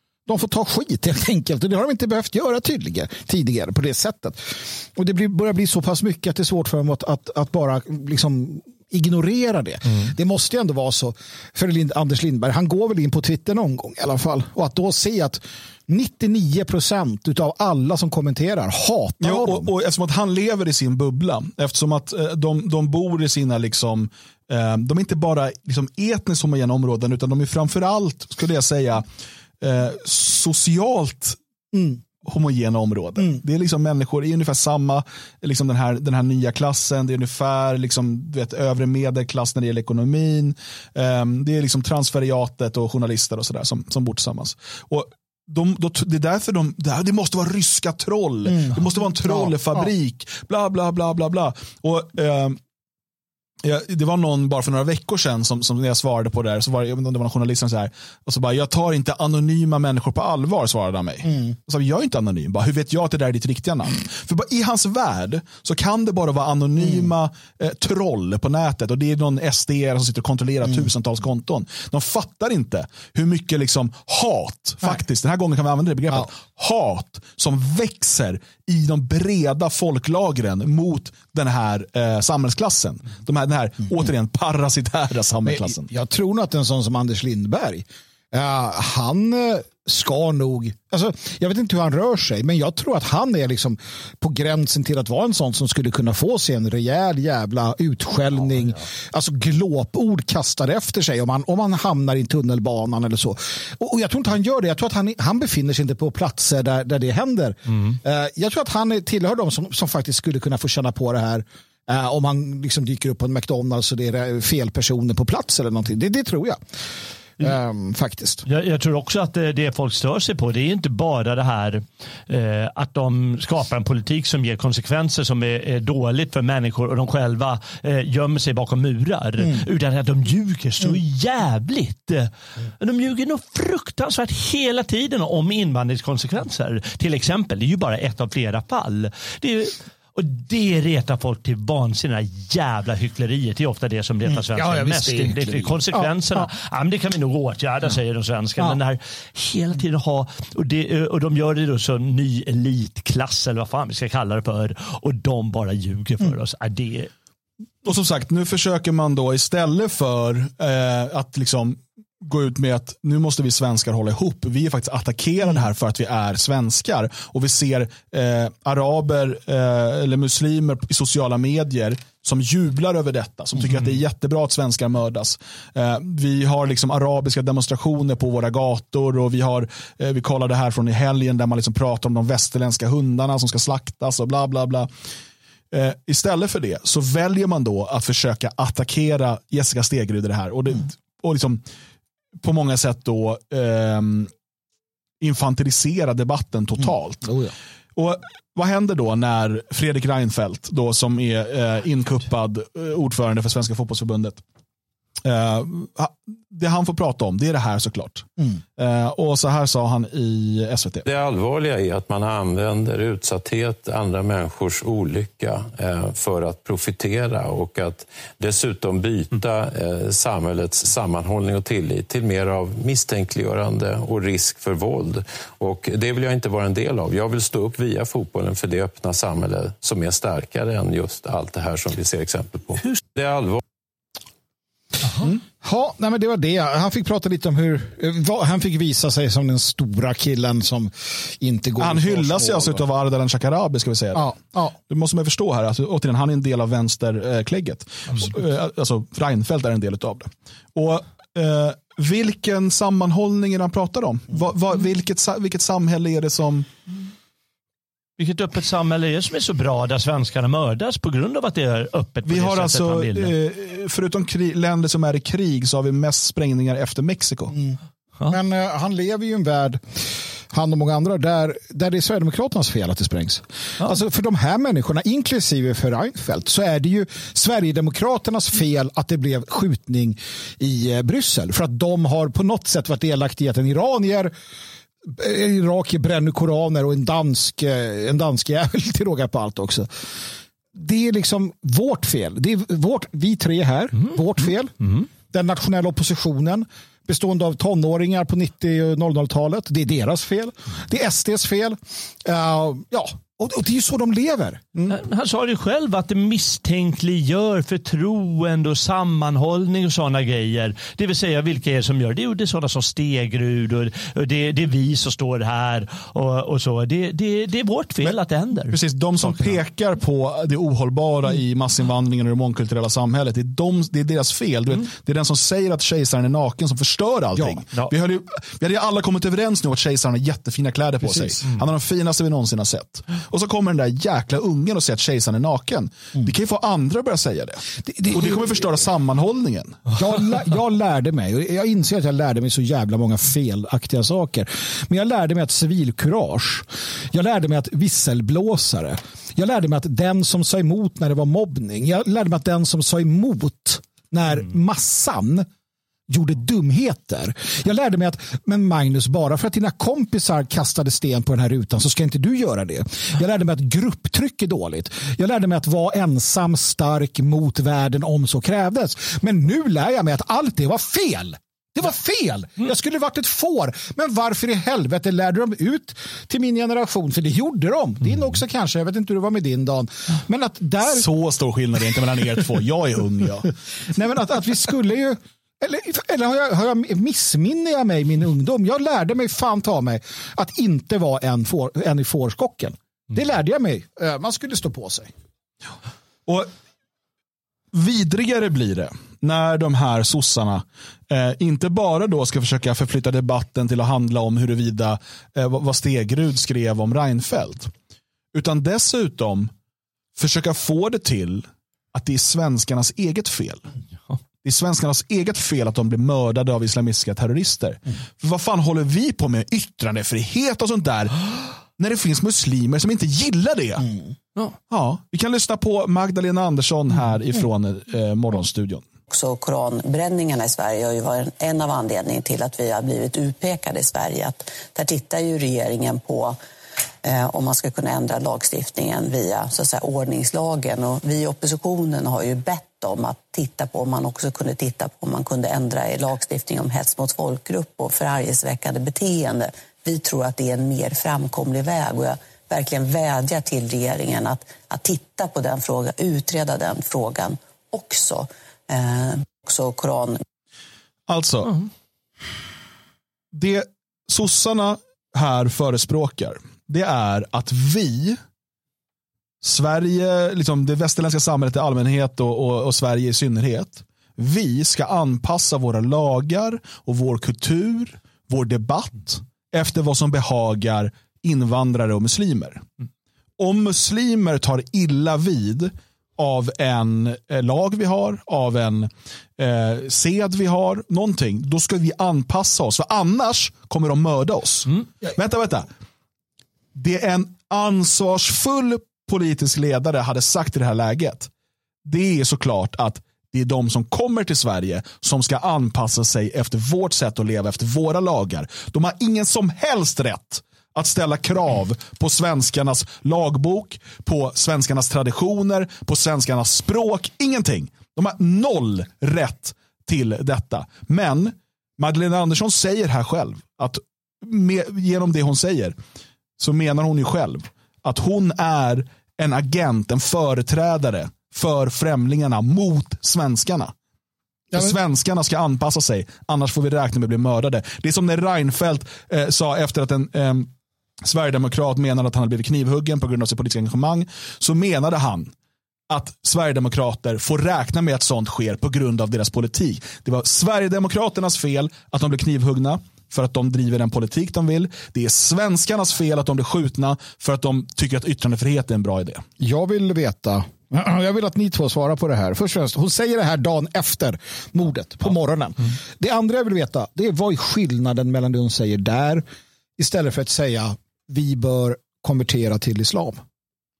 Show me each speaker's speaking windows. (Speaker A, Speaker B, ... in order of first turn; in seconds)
Speaker A: 0.3-19.7, 48.6-49.9, 85.4-116.6, 117.4-118.5, 144.3-146.5, 197.2-197.5, 235.6-242.8, 244.1-244.8, 267.5-284.3, 285.0-289.9, 290.7-305.0, 327.4-327.6, 331.0-331.3, 337.9-338.5, 339.9-355.5, 356.1-381.1, 383.9-395.1, 559.4-569.2, 569.8-573.2
Speaker B: 19.2-29.0, 29.6-31.4, 32.2-52.6, 53.6-85.9, 157.8-184.9, 185.7-191.6, 192.4-194.3, 195.2-197.3, 198.0-204.4, 205.2-211.1, 241.8-244.3, 244.9-256.7, 262.2-267.5, 318.7-339.9, 380.8-383.5, 396.3-396.5, 397.7-407.7, 408.3-409.5, 410.2-413.7, 414.4-423.9, 424.7-428.8, 461.1-461.6, 463.3-468.2, 469.4-482.6, 483.4-495.7, 496.8-501.3, 501.9-525.8, 526.4-533.7, 534.5-540.5, 541.0-545.3, 545.9-559.2
Speaker C: 118.5-157.1, 258.2-263.3, 304.9-318.8
Speaker D: 211.1-233.6
Speaker E: 429.1-436.4, 437.0-460.2